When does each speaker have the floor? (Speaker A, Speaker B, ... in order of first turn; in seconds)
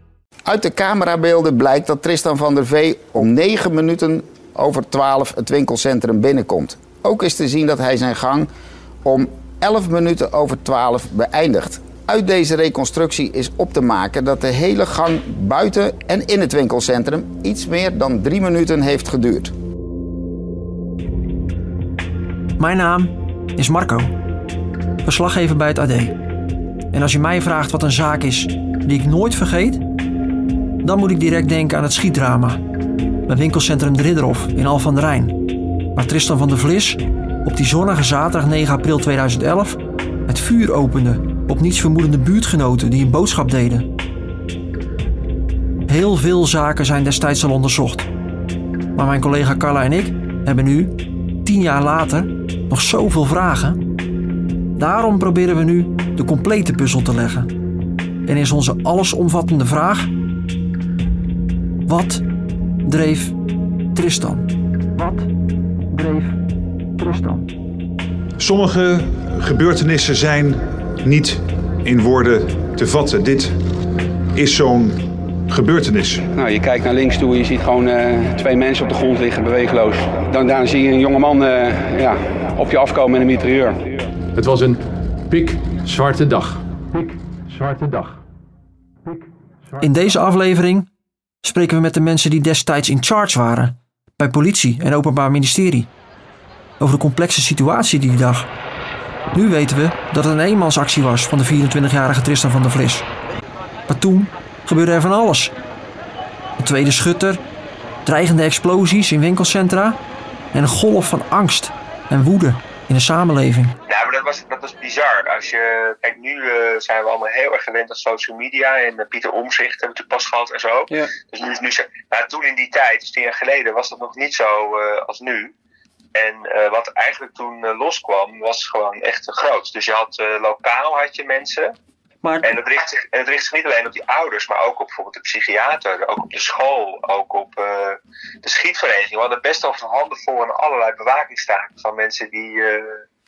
Speaker A: 0.5-8.5, 9.0-19.5
Speaker B: 22.6-24.1, 25.0-26.1, 26.9-29.8, 30.8-32.6, 33.3-35.4, 36.0-43.9, 45.9-48.1, 49.0-50.9, 51.4-53.8, 54.8-57.5, 58.2-60.1, 61.9-62.2, 62.9-63.3, 63.9-64.5, 65.0-65.3, 65.9-66.4, 67.0-67.5, 89.8-90.9, 91.4-95.9, 96.8-98.5, 99.3-103.0, 103.9-105.5, 106.6-107.4, 108.0-110.0, 110.5-113.7
Speaker C: 68.4-73.5, 74.3-75.0, 75.5-76.2
Speaker D: 76.3-83.8
Speaker E: 84.3-88.2
Speaker F: 113.9-125.5, 126.1-131.7, 132.4-143.0